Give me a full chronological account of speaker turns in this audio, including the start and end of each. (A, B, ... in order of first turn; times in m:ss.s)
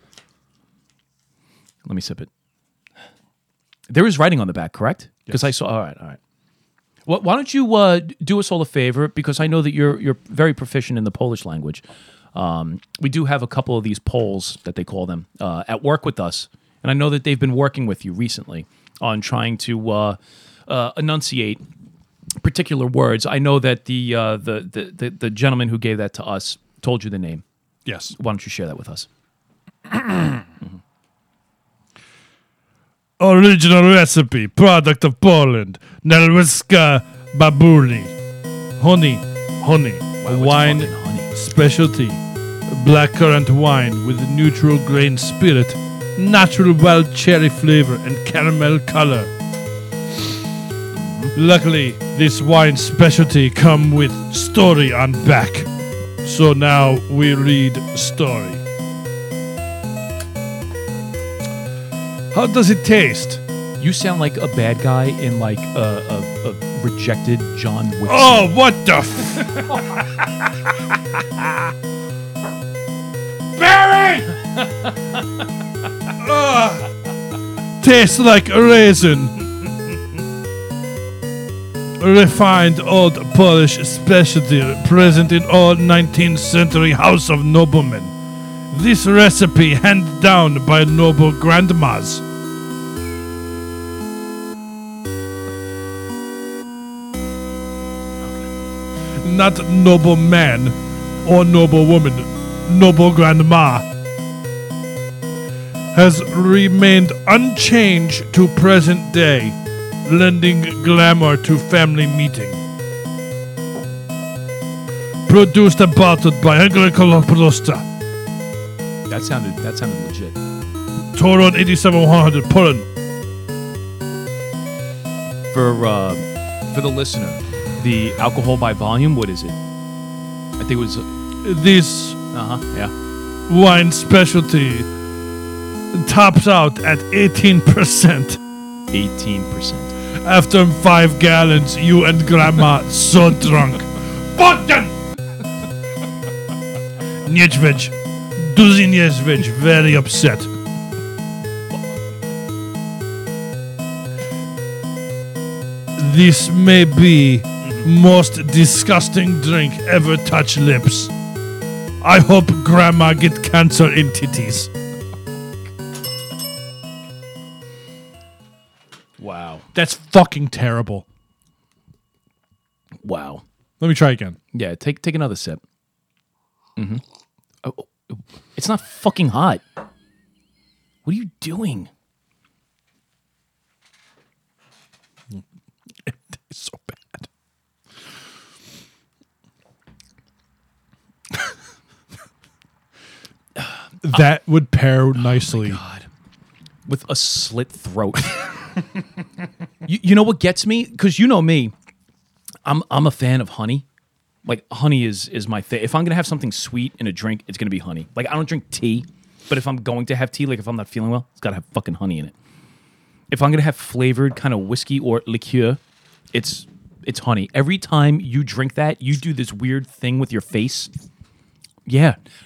0:01.8-0:02.3 A
0:03.9-0:06.2 A
0:07.0-0:21.6 A
0:22.4-0:27.4 A
0:27.8-0:28.1 B
0:28.2-0:29.1 A
0:29.9-0:30.4 B
0:33.2-0:38.1 B
0:38.8-0:49.3 B
0:40.2-0:41.3 A
0:50.9-0:51.3 A
0:51.3-0:55.7 B
0:56.2-0:58.6 B
1:02.3-1:03.4 B
1:03.8-1:08.5 A
1:08.0-1:11.7 B
1:13.6-1:14.4 B
1:16.2-1:16.9 B
1:17.8-1:19.4 B
1:22.0-1:28.1 B
1:28.7-1:32.2 B
1:39.2-1:43.8 B
1:45.9-1:52.6 B
1:55.2-1:57.9 B
1:59.1-2:00.4 A
2:01.1-2:02.8 B
2:05.5-2:09.6 A
2:10.6-2:11.1 A
2:11.4-2:12.2 B
2:12.3-2:12.9 A
2:13.5-2:14.9 B
2:15.9-2:18.4 B
2:18.9-2:19.9 A
2:20.1-2:25.0 B
2:27.2-2:30.5 B
2:36.0-2:41.1 B
2:42.0-2:44.7 B
2:49.2-2:49.6 A
2:49.7-2:51.0 B
2:53.0-2:53.4 A
2:53.8-2:54.4 B
2:54.5-2:55.6 A
2:56.8-2:57.0 A
2:57.6-2:59.6 A
3:01.0-3:01.9 A
3:06.0-3:07.3 B
3:14.0-3:15.8 B
3:15.2-3:16.1 A
3:16.8-3:18.5 A
3:19.8-3:21.7 A
3:22.6-3:23.8 A
3:24.4-3:32.3 A
3:33.3-3:35.8 A
3:36.3-3:40.9 A
3:41.8-3:42.2 A